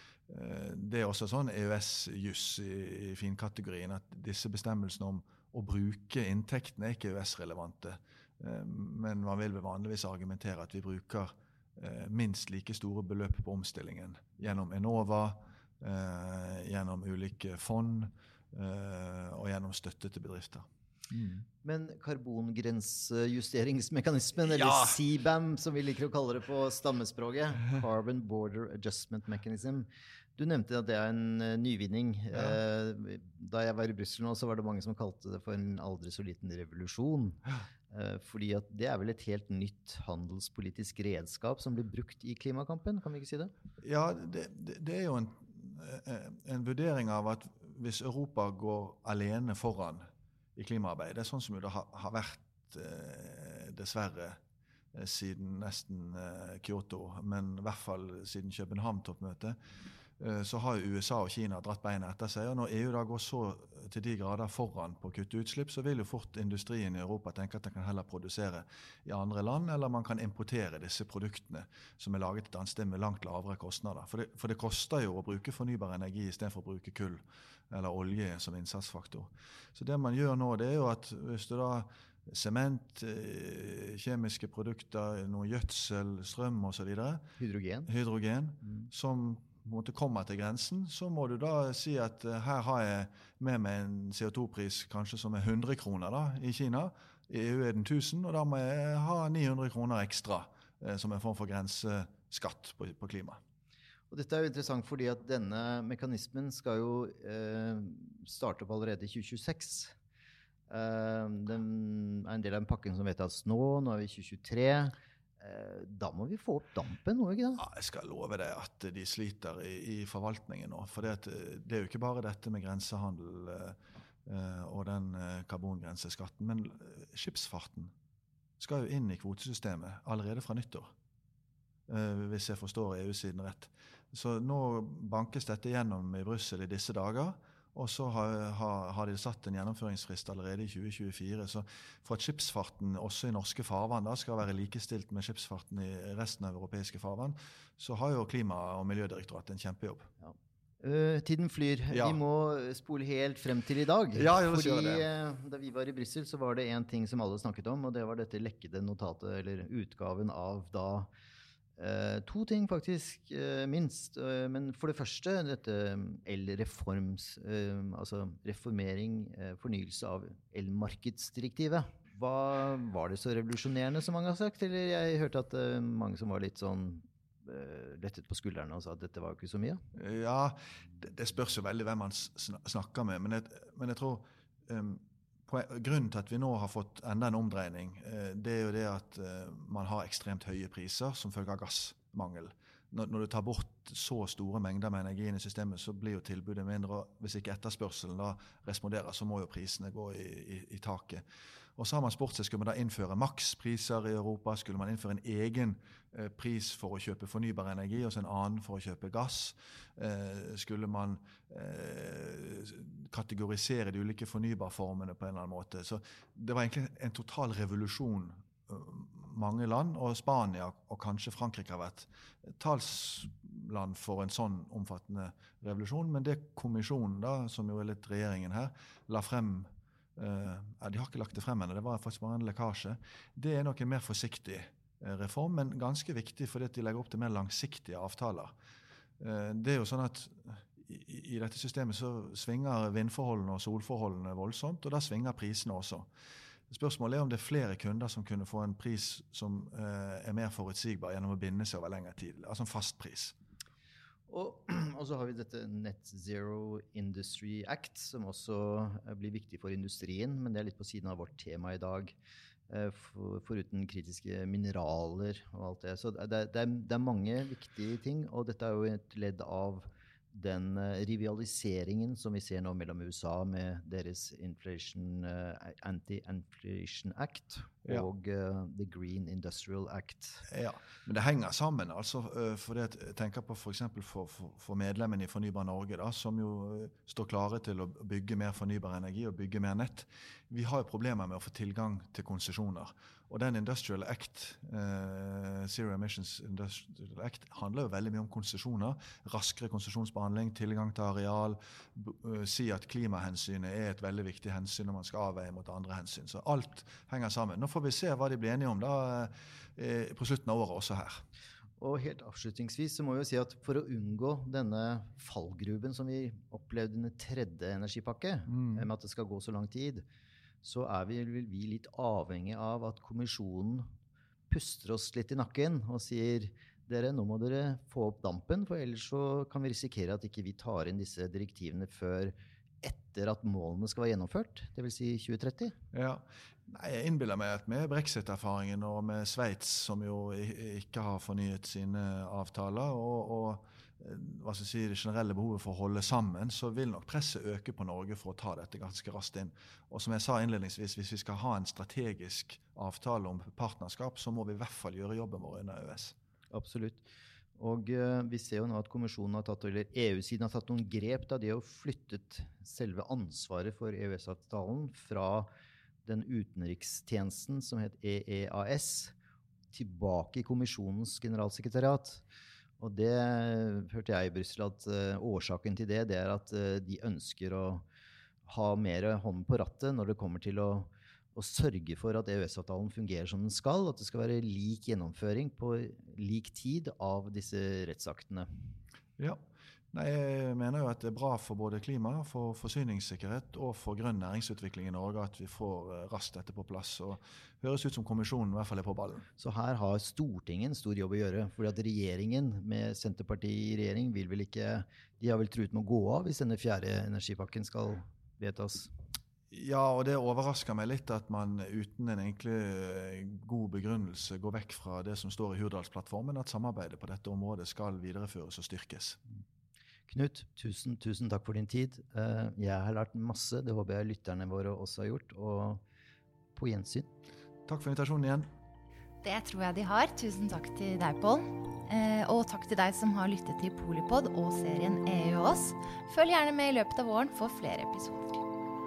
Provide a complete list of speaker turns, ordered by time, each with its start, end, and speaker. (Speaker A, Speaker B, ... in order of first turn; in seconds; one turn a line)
Speaker A: 0.3-21.4
Speaker B: 21.6-43.5
Speaker A: 24.5-25.0
Speaker A: 43.8-54.4
Speaker A: 54.9-59.5
Speaker A: 60.2-87.2
Speaker B: 87.4-87.9
Speaker A: 87.9-103.4
Speaker B: 104.1-110.0
Speaker B: 110.7-117.6
Speaker A: 117.6-127.9
Speaker A: 128.6-130.9
Speaker A: 131.9-150.1
Speaker B: 150.2-161.1
Speaker A: 151.9-152.2
Speaker A: 154.1-155.1
Speaker B: 161.8-179.8
Speaker A: 179.9-201.2
Speaker A: 201.8-238.5
Speaker A: 239.2-246.1
Speaker A: 246.7-253.3
Speaker B: 254.3-262.1
Speaker B: 262.7-280.4
Speaker A: 280.5-311.2
Speaker B: 311.8-320.0
Speaker A: 318.5-318.9
Speaker B: 320.6-323.9
Speaker B: 324.5-335.8
Speaker A: 335.9-356.1
Speaker B: 356.5-357.1
Speaker B: 357.6-365.5
Speaker B: 366.0-369.1
Speaker B: 369.7-372.2
Speaker B: 372.8-377.8
Speaker B: 378.4-388.5
Speaker A: 389.2-399.3
Speaker B: 399.4-408.9
Speaker A: 409.5-419.2
Speaker B: 420.1-425.8
Speaker B: 426.5-427.1
Speaker A: 427.6-428.5
Speaker C: 429.2-438.4